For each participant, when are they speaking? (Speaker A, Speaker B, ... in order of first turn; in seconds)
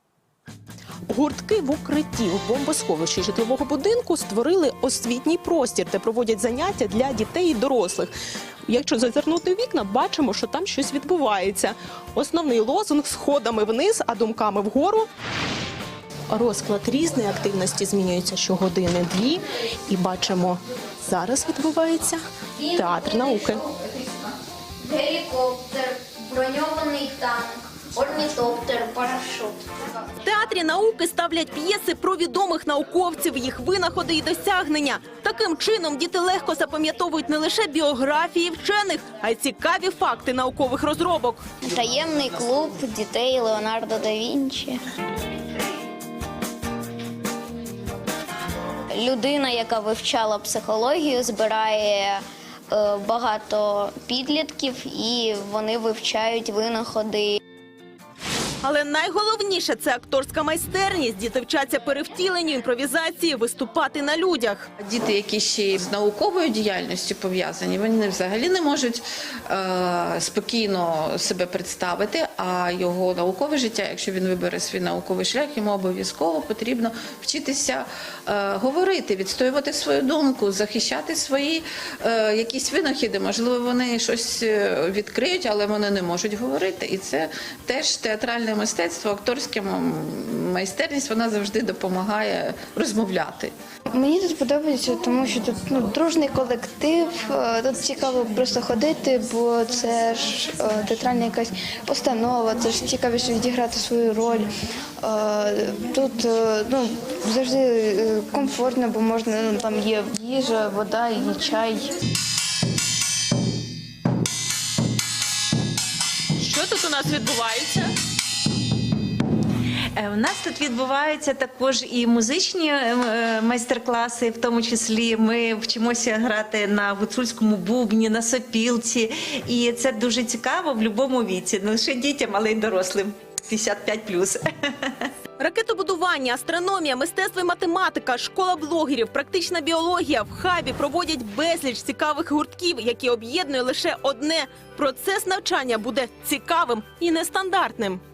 Speaker A: 1.1-8.1, 8.7-15.1, 16.3-22.2, 22.8-23.6, 30.2-41.5, 58.6-64.7, 116.4-117.9, 135.4-148.0
Speaker B: 22.6-24.2, 24.8-29.6, 41.6-44.8, 48.9-57.4
Speaker C: 64.9-93.5
Speaker D: 93.9-104.5, 105.0-111.9
Speaker E: 120.0-134.3